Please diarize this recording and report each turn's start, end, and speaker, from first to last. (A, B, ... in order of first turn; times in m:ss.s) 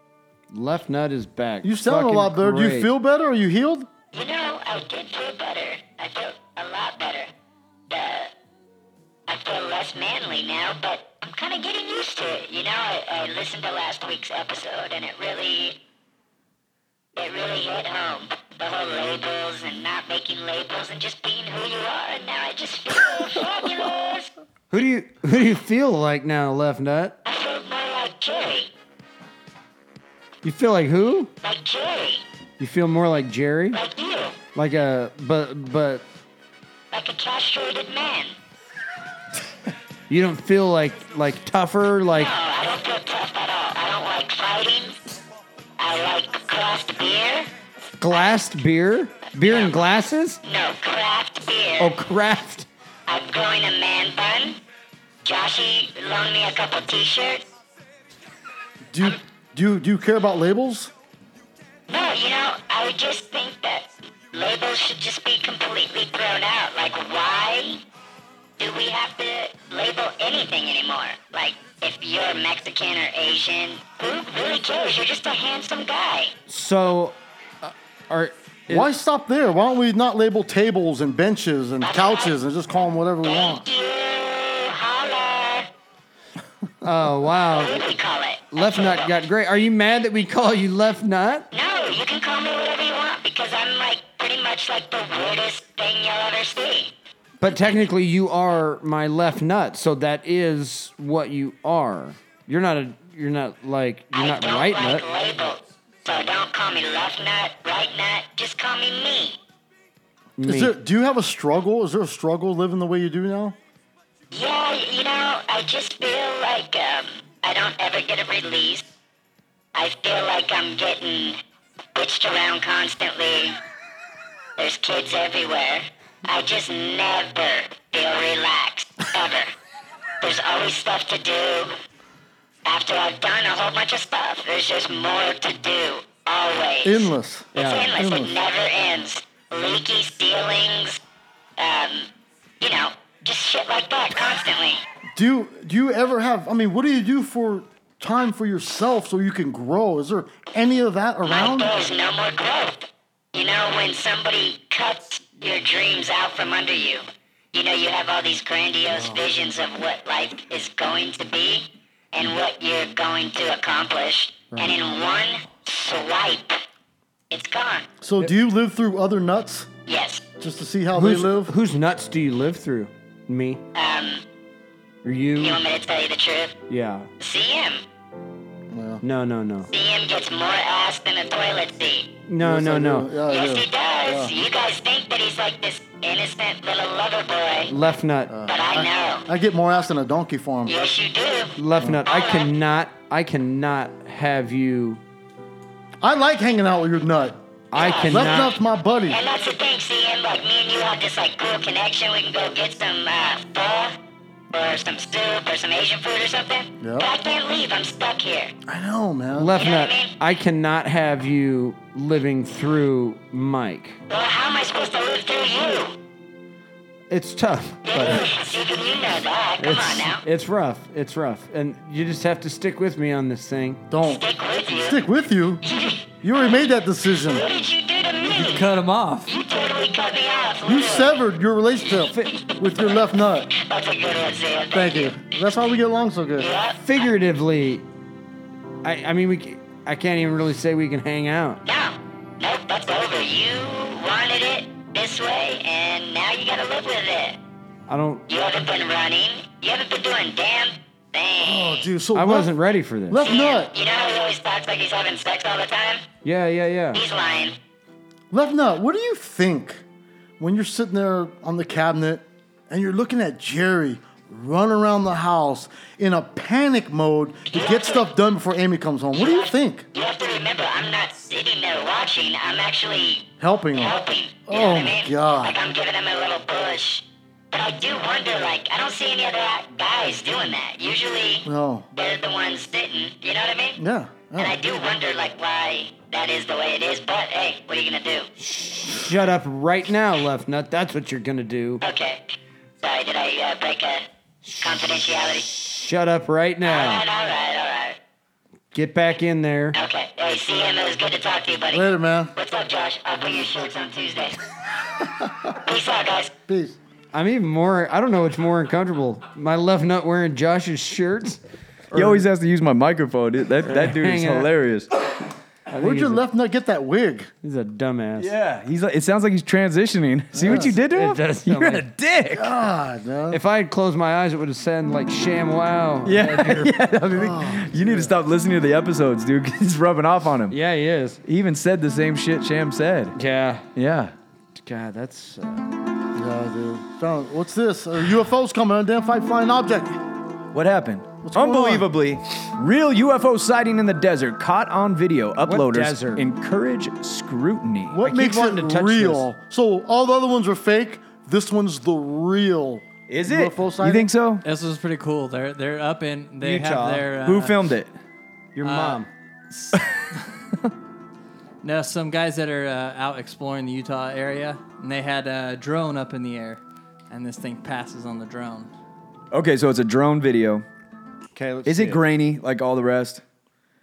0:00.5-0:02.9 A
0:01.6-0:03.9 B
0:04.1-0:07.3 C
0:07.9-0:08.3 C
0:09.3-0:15.8 C
0:17.2-0:24.3 C
0:24.7-0:27.2 A
0:27.2-0:28.7 C
0:30.4-0:31.3 A
0:31.4-0:32.2 C
0:32.6-0:33.8 A
0:33.7-0:34.4 C
0:34.6-0:36.0 A
0:36.9-0:38.4 C
0:40.1-0:42.3 A
0:42.2-0:45.0 C
0:45.8-0:47.5 C
0:48.0-0:50.4 A
0:49.4-0:49.7 C
0:50.4-0:51.9 C
0:51.8-0:52.7 A
0:53.1-0:54.6 C
0:55.2-0:57.4 C
0:58.9-1:00.9 B
1:01.9-1:07.8 C
1:08.6-1:16.3 C
1:16.5-1:18.9 A
1:18.7-1:23.6 B
1:21.8-1:22.4 C
1:23.2-1:25.7 C
1:26.8-1:27.8 A
1:27.5-1:29.1 C
1:28.5-1:31.5 A
1:31.5-1:36.9 C
1:37.4-1:45.1 A
1:44.1-1:49.4 C
1:50.4-1:50.8 A
1:50.4-1:53.6 B
1:54.3-1:58.9 C
1:59.8-2:01.4 C
2:02.0-2:03.6 C
2:04.6-2:09.5 C
2:10.2-2:11.7 C
2:12.6-2:21.0 C
2:16.8-2:18.4 B
2:17.6-2:17.9 A
2:21.6-2:22.1 C
2:22.6-2:24.8 C
2:25.2-2:31.8 B
2:31.2-2:46.6 C
2:38.9-2:39.2 B
2:47.3-2:47.9 C
2:48.0-2:49.7 B
2:49.9-2:50.2 C
2:50.4-2:51.5 B
2:50.9-2:53.6 A
2:53.7-2:54.2 C
2:55.0-2:55.6 A
2:55.4-2:56.6 C
2:56.7-2:57.1 A
2:57.2-2:57.8 C
2:58.7-2:59.0 B
2:59.0-2:59.7 A
2:59.7-3:02.1 C
3:02.3-3:03.1 A
3:02.4-3:04.3 B
3:03.3-3:07.7 C
3:07.7-3:08.3 A
3:08.3-3:10.8 B
3:08.5-3:09.3 C
3:10.7-3:12.5 C
3:11.6-3:15.0 A
3:16.0-3:17.4 B
3:17.7-3:18.5 A
3:17.8-3:18.4 C
3:18.0-3:19.2 B
3:19.1-3:24.0 C
3:24.5-3:28.5 C
3:26.8-3:27.1 B
3:28.7-3:29.6 B
3:29.4-3:34.0 A
3:29.6-3:30.1 C
3:34.1-3:36.0 C
3:37.1-3:38.3 A
3:37.9-3:40.2 C
3:39.6-3:43.8 A
3:43.9-3:45.6 B
3:44.0-3:45.0 C
3:45.7-3:46.0 C
3:46.2-3:47.5 B
3:47.3-3:48.7 C
3:48.2-3:49.4 D
3:49.2-3:51.2 C
3:50.6-3:53.5 B
3:52.1-3:52.4 A
3:53.5-3:55.2 C
3:54.7-3:56.5 B
3:56.4-3:56.8 C
3:56.8-3:57.8 A
3:58.8-4:01.6 A
4:01.6-4:07.4 C
4:07.9-4:08.2 A
4:08.3-4:11.8 C
4:11.4-4:12.5 B
4:12.1-4:13.2 A
4:13.1-4:13.7 B
4:13.2-4:16.1 C
4:16.2-4:17.0 A
4:16.9-4:17.6 C
4:18.3-4:19.8 B
4:20.4-4:29.9 B
4:27.5-4:28.1 C
4:29.1-4:43.8 C
4:33.4-4:35.6 B
4:41.4-4:41.9 B
4:43.8-4:44.6 B
4:44.4-4:48.3 C
4:48.4-4:51.8 A
4:51.8-4:54.1 C
4:54.4-4:57.0 A
4:54.6-4:55.5 C
4:56.6-4:58.0 C
4:58.7-4:59.8 A
4:59.7-5:04.4 C
5:01.7-5:02.3 B
5:05.0-5:05.5 B
5:05.6-5:06.3 C
5:06.5-5:06.8 B
5:07.1-5:12.2 A
5:11.9-5:14.9 E
5:13.7-5:14.5 A
5:15.7-5:16.2 A
5:15.8-5:17.3 B
5:17.4-5:18.3 A
5:18.2-5:22.5 E
5:20.4-5:20.7 B
5:20.7-5:21.8 A
5:22.3-5:23.4 B
5:23.3-5:26.8 A
5:26.0-5:30.6 E
5:27.2-5:28.1 B
5:30.5-5:31.2 A
5:31.3-5:33.2 E
5:33.2-5:33.7 A
5:33.8-5:34.1 E
5:34.6-5:35.7 A
5:36.2-5:40.0 B
5:40.5-5:48.0 E
5:41.2-5:41.9 B
5:45.4-5:46.3 A
5:47.9-5:54.1 B
5:48.0-5:49.3 A
5:53.1-5:54.4 E
5:54.4-5:57.6 D
5:56.4-5:57.1 A
5:57.2-5:57.9 E
5:58.6-5:59.1 A
5:58.6-6:00.2 D
6:01.6-6:08.7 D
6:09.3-6:10.6 E
6:11.4-6:12.0 A
6:11.7-6:13.2 E